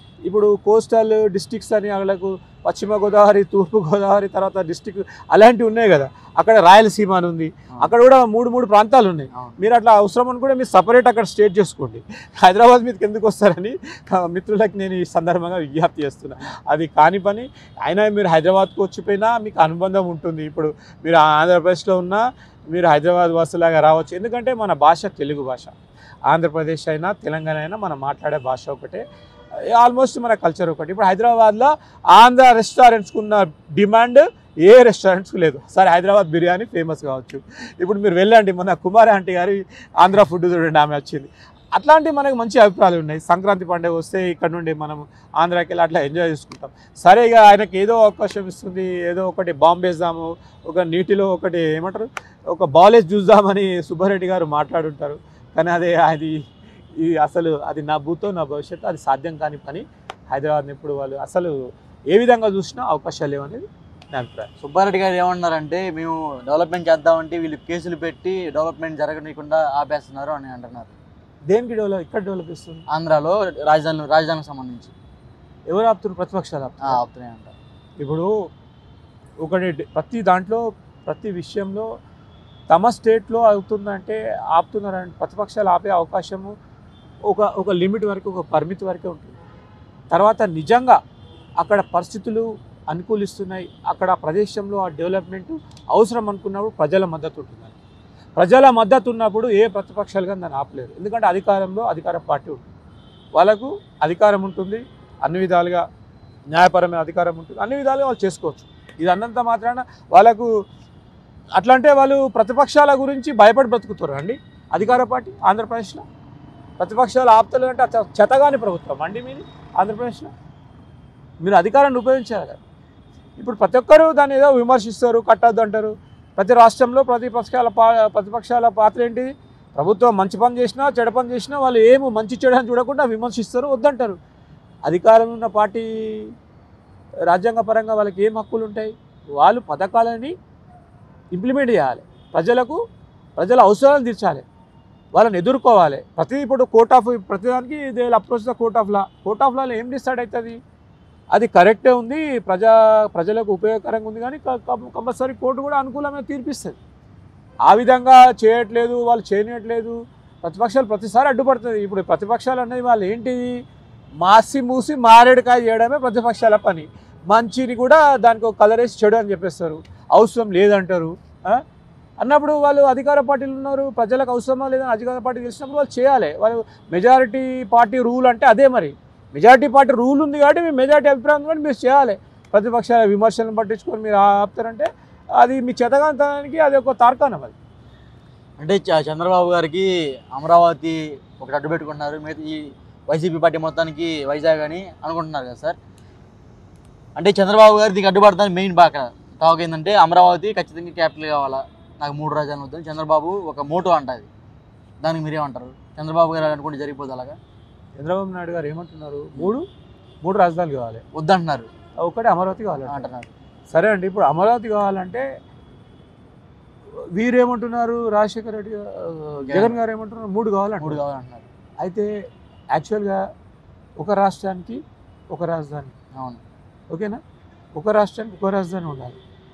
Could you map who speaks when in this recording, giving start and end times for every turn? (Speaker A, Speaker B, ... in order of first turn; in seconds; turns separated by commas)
Speaker A: 0.3-25.7, Speaker A: 26.3-29.0, Speaker A: 29.7-56.4, Speaker A: 57.0-61.6, Speaker A: 62.1-64.5, Speaker B: 64.6-70.9, Speaker A: 71.5-72.8, Speaker B: 72.9-74.9, Speaker A: 75.7-77.0, Speaker B: 76.8-77.5, Speaker A: 78.0-78.3, Speaker A: 79.4-81.9, Speaker A: 82.7-86.5, Speaker A: 87.3-89.4, Speaker A: 90.1-91.0, Speaker A: 91.6-97.8, Speaker A: 98.4-102.7, Speaker A: 103.4-105.8, Speaker A: 106.5-110.5, Speaker A: 111.6-116.0, Speaker A: 116.8-120.3, Speaker A: 121.4-122.6, Speaker A: 123.4-134.2, Speaker A: 134.9-136.3, Speaker A: 137.3-140.3, Speaker A: 141.3-142.8, Speaker A: 143.4-144.4, Speaker A: 145.2-150.6, Speaker A: 151.3-156.8, Speaker A: 157.7-163.6, Speaker A: 164.2-171.6, Speaker A: 172.2-187.6, Speaker B: 188.6-195.8, Speaker B: 197.2-204.3, Speaker B: 205.0-207.4, Speaker A: 208.0-209.7, Speaker A: 210.2-211.0, Speaker B: 211.2-211.7, Speaker A: 212.0-213.1, Speaker B: 212.9-213.3, Speaker A: 213.7-215.2, Speaker A: 217.2-221.0, Speaker B: 219.5-219.8, Speaker B: 220.8-221.5, Speaker A: 221.8-222.1, Speaker A: 222.7-223.2, Speaker A: 224.0-224.8, Speaker A: 225.3-225.9, Speaker B: 226.2-226.4, Speaker A: 226.9-227.2, Speaker A: 227.8-229.2